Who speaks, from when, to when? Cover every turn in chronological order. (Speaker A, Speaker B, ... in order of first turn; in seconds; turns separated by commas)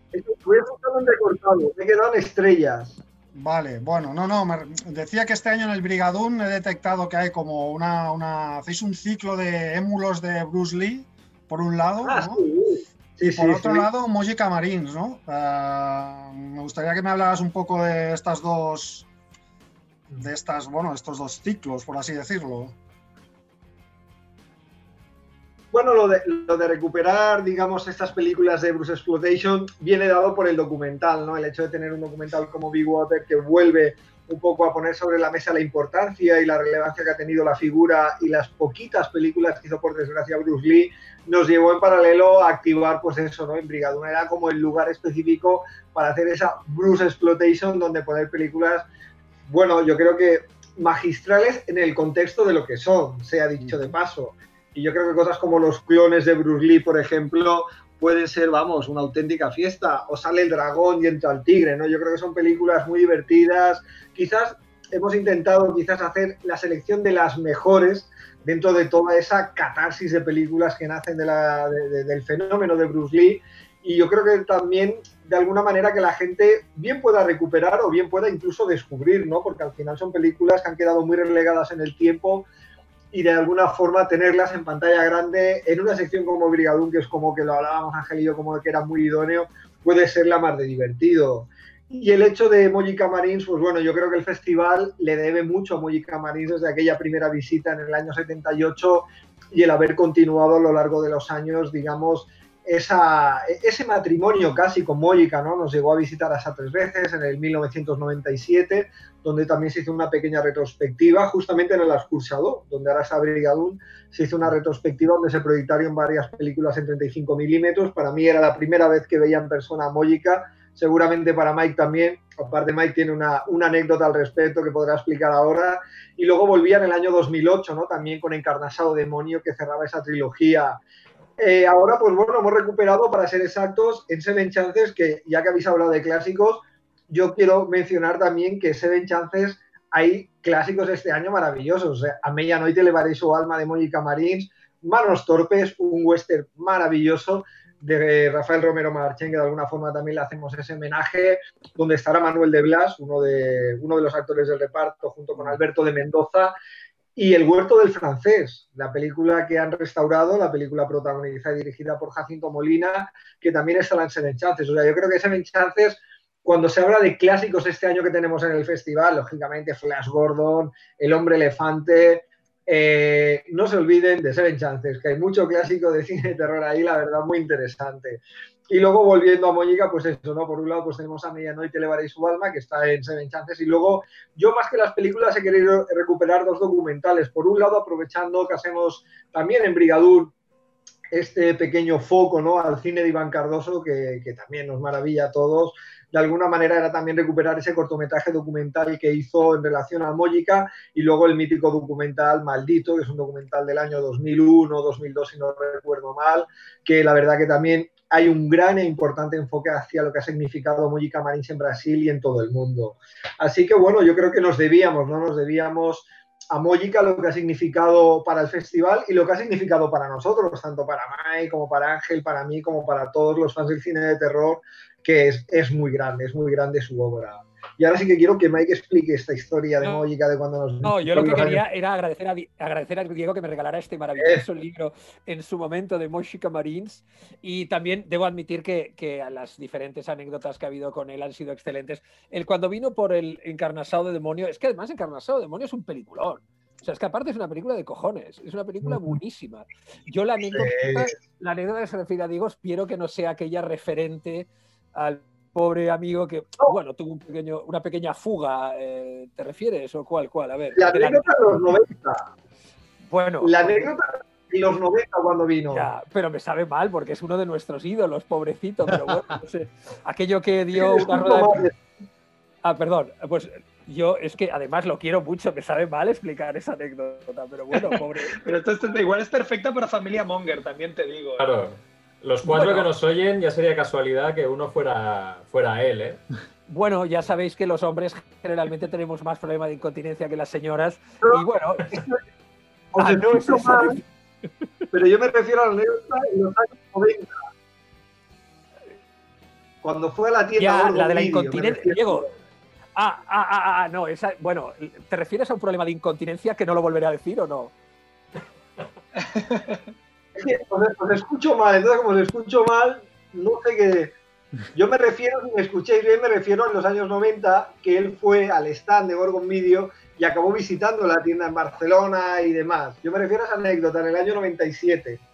Speaker A: 0.1-3.0, Speaker B: 3.3-12.4, Speaker A: 12.0-13.9, Speaker B: 13.3-19.1, Speaker B: 20.1-22.8, Speaker A: 25.7-48.9, Speaker A: 49.5-82.5, Speaker B: 53.6-53.9, Speaker A: 83.1-130.8, Speaker A: 131.4-156.5, Speaker A: 157.2-190.3, Speaker A: 191.1-231.6, Speaker C: 230.8-261.3, Speaker A: 234.2-234.4, Speaker A: 248.8-249.2, Speaker A: 250.5-251.1, Speaker A: 260.8-262.3, Speaker C: 263.1-263.9, Speaker A: 263.4-265.9, Speaker C: 265.7-271.7, Speaker A: 270.7-271.8, Speaker C: 272.6-278.4, Speaker D: 278.4-281.4, Speaker E: 281.4-286.2, Speaker C: 282.4-282.9, Speaker C: 286.7-292.0, Speaker A: 291.2-292.2, Speaker A: 292.9-294.0, Speaker C: 293.0-294.0, Speaker A: 294.9-297.3, Speaker A: 299.8-302.3, Speaker C: 300.6-302.3, Speaker C: 302.9-307.7, Speaker D: 309.3-309.8, Speaker A: 310.4-314.1, Speaker A: 314.7-325.2